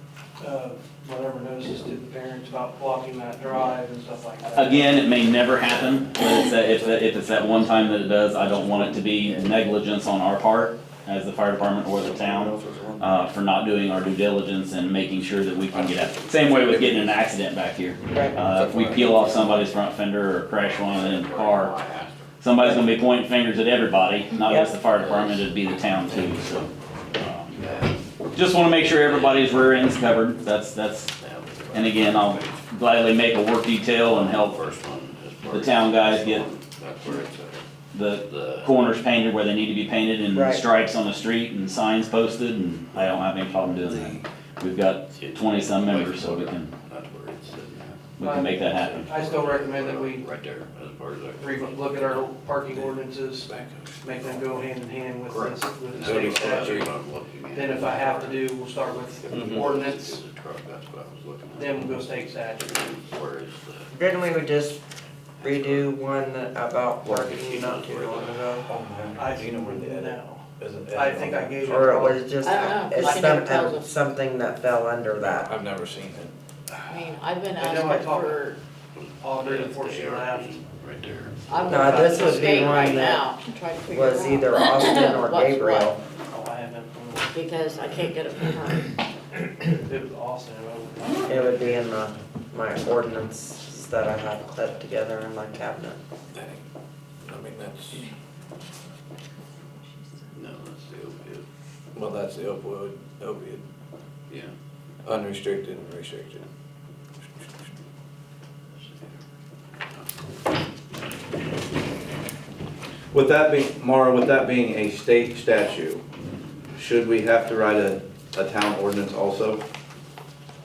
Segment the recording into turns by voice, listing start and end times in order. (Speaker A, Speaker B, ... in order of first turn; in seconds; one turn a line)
Speaker A: 0.4-5.2
Speaker B: 4.5-21.7
Speaker C: 12.2-13.0
Speaker C: 16.4-17.1
Speaker D: 18.1-18.4
Speaker C: 18.6-19.4
Speaker E: 20.6-22.3
Speaker B: 22.4-27.6
Speaker D: 24.5-24.7
Speaker E: 24.9-25.5
Speaker E: 27.5-28.0
Speaker B: 28.3-31.1
Speaker E: 28.8-29.9
Speaker E: 31.1-32.6
Speaker B: 31.7-34.6
Speaker E: 34.0-37.6
Speaker B: 35.5-36.4
Speaker B: 37.9-46.7
Speaker E: 38.2-38.7
Speaker D: 40.3-40.6
Speaker C: 43.8-44.2
Speaker E: 45.1-48.1
Speaker B: 48.2-49.1
Speaker A: 48.2-50.3
Speaker E: 49.0-52.3
Speaker A: 51.4-53.5
Speaker C: 52.7-54.6
Speaker A: 54.0-56.9
Speaker E: 55.3-62.0
Speaker C: 56.0-56.7
Speaker A: 57.5-60.2
Speaker C: 59.3-59.7
Speaker A: 61.5-62.6
Speaker E: 62.6-63.9
Speaker D: 63.9-64.8
Speaker E: 65.4-65.9
Speaker D: 65.4-68.7
Speaker E: 67.0-68.5
Speaker C: 68.7-71.9
Speaker A: 69.1-72.7
Speaker D: 71.7-75.5
Speaker F: 72.4-73.9
Speaker C: 75.2-77.1
Speaker F: 76.9-78.6
Speaker A: 77.5-78.6
Speaker E: 78.9-82.7
Speaker A: 79.2-80.6
Speaker F: 81.5-85.9
Speaker D: 81.7-83.2
Speaker A: 81.7-82.9
Speaker D: 83.9-86.0
Speaker A: 86.3-87.3
Speaker F: 87.3-88.9
Speaker A: 89.8-91.8
Speaker D: 91.3-96.0
Speaker C: 96.3-96.6
Speaker C: 97.2-98.0
Speaker E: 100.3-101.4
Speaker C: 101.9-103.6
Speaker C: 105.0-106.5
Speaker C: 113.1-116.0
Speaker C: 116.8-119.6